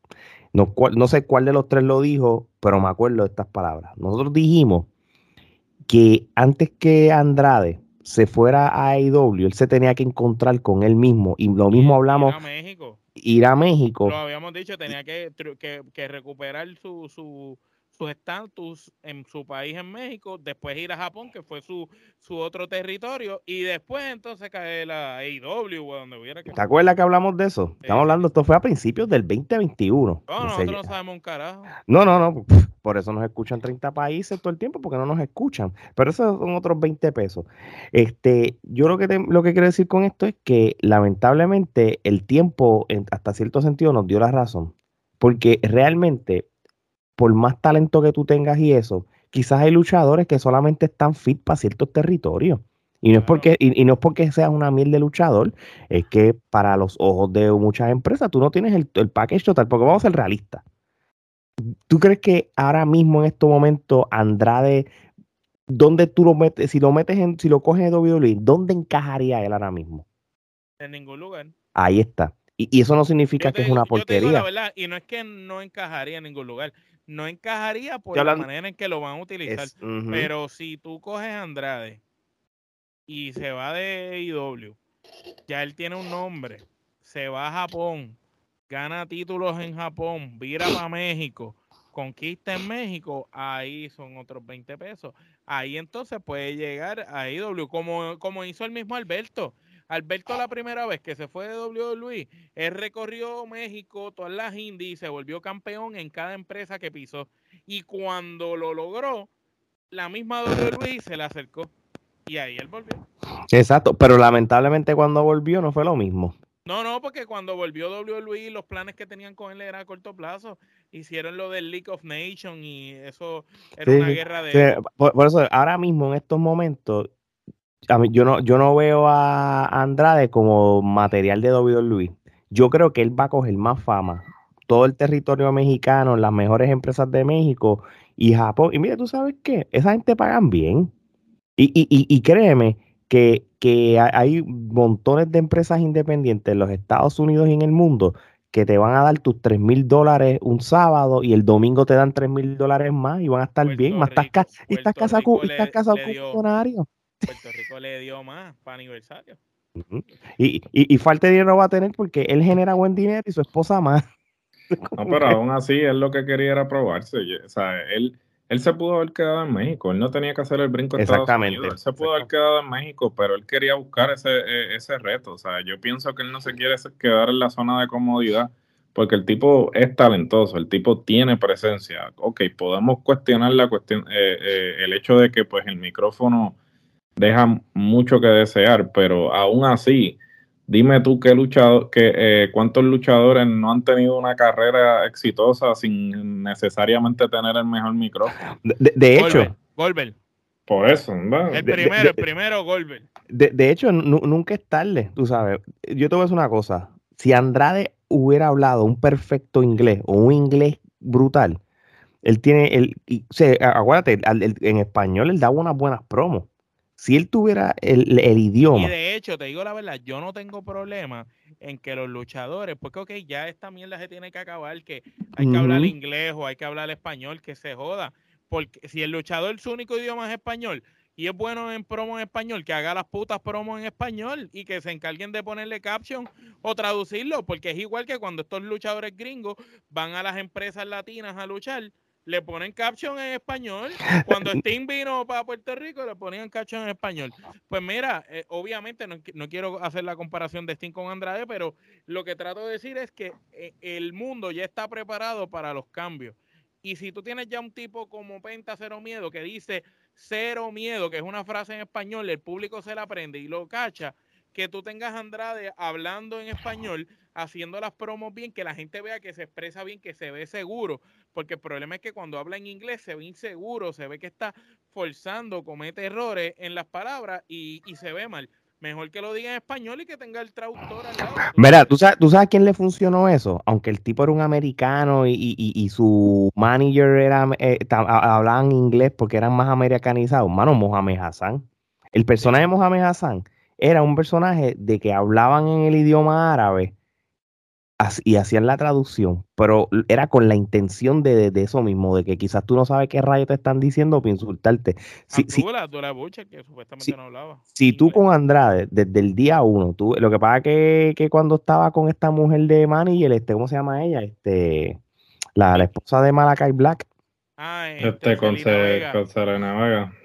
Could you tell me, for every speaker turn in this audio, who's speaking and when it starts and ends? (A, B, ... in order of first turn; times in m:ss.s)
0:00.5-0:04.9 A
0:05.9-0:12.4 A
0:11.7-0:13.0 B
0:13.2-0:14.2 A
0:14.0-0:26.6 B
0:26.5-0:30.9 A
0:27.8-0:28.2 B
0:30.3-0:31.7 B
0:31.9-0:46.5 A
0:47.2-1:00.6 A
0:53.1-0:53.5 B
1:01.6-1:04.9 A
1:05.7-1:10.0 A
1:10.8-1:11.5 B
1:11.7-1:14.5 A
1:13.4-1:22.0 B
1:18.1-1:18.4 A
1:19.4-1:20.3 A
1:23.1-1:24.8 B
1:25.5-1:28.2 B
1:28.7-1:49.3 B
1:49.9-1:51.7 B
1:52.2-1:53.0 B
1:53.5-1:56.3 A
1:56.6-2:04.8 B
2:03.8-2:07.1 A
2:07.9-2:20.9 A
2:21.6-2:36.9 A
2:33.6-2:36.4 B
2:37.2-2:39.4 B
2:39.8-2:44.0 A
2:44.7-2:45.4 A
2:44.9-3:06.6 C
2:51.0-2:52.3 A
3:07.2-3:18.4 C
3:18.6-3:19.5 A
3:19.2-3:20.1 B
3:20.7-3:21.7 C
3:21.5-3:23.1 B
3:21.6-3:22.3 A
3:23.3-3:31.6 A
3:32.2-3:38.9 A
3:38.7-4:42.0 B
3:45.4-3:45.9 A
4:41.6-4:56.9 A
4:52.4-4:52.7 B
4:58.0-5:05.6 A
5:05.3-5:08.2 B
5:07.7-5:15.0 A
5:15.6-5:17.0 A
5:17.6-5:19.2 B
5:18.0-5:20.1 C